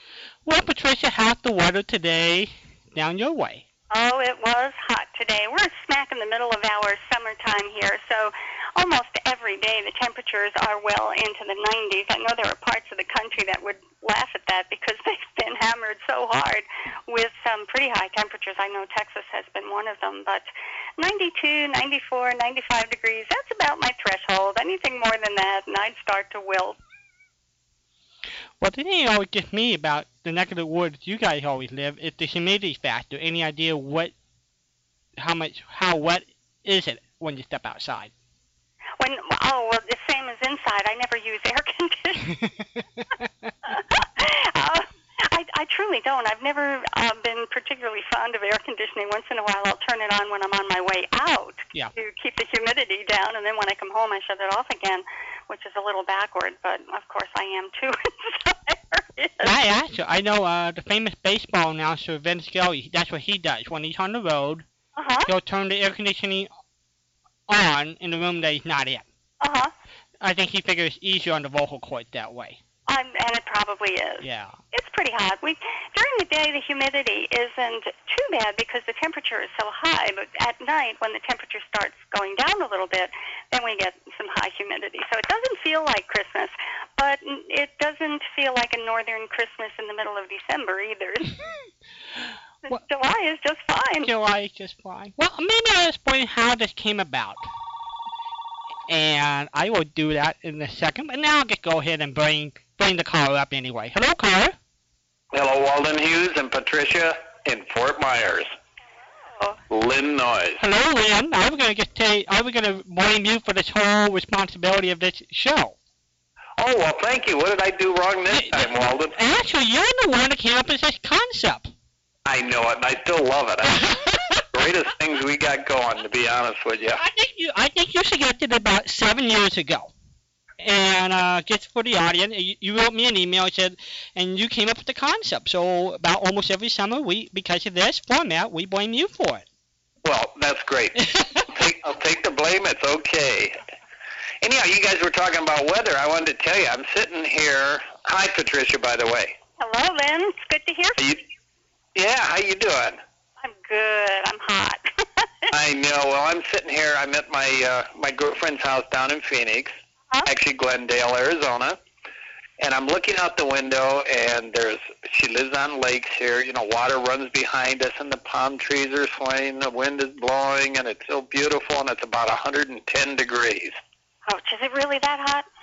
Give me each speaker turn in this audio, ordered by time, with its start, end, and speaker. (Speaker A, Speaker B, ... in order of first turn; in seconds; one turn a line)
Speaker A: 0.5-3.6
Speaker B: 3.9-26.8
Speaker A: 28.6-34.1
Speaker A: 35.2-38.1
Speaker B: 39.0-42.4
Speaker A: 43.2-43.5
Speaker B: 43.6-59.5
Speaker A: 59.4-64.6
Speaker B: 65.0-65.3
Speaker A: 65.3-66.5
Speaker A: 67.5-69.0
Speaker B: 69.4-69.7
Speaker A: 70.2-72.6
Speaker B: 72.9-91.7
Speaker A: 74.2-74.6
Speaker B: 92.7-94.1
Speaker A: 94.0-97.5
Speaker A: 98.9-104.5
Speaker C: 105.3-108.5
Speaker C: 109.7-110.6
Speaker A: 110.6-115.8
Speaker C: 116.6-119.2
Speaker A: 118.3-121.7
Speaker C: 122.2-124.0
Speaker A: 124.0-124.3
Speaker C: 124.5-127.0
Speaker A: 127.0-129.9
Speaker A: 130.6-139.4
Speaker C: 140.0-143.6
Speaker C: 144.4-149.3
Speaker B: 149.6-151.0
Speaker C: 151.9-153.0
Speaker B: 153.4-154.8
Speaker C: 155.5-159.7
Speaker C: 160.2-161.8
Speaker C: 162.6-173.8
Speaker B: 174.2-175.4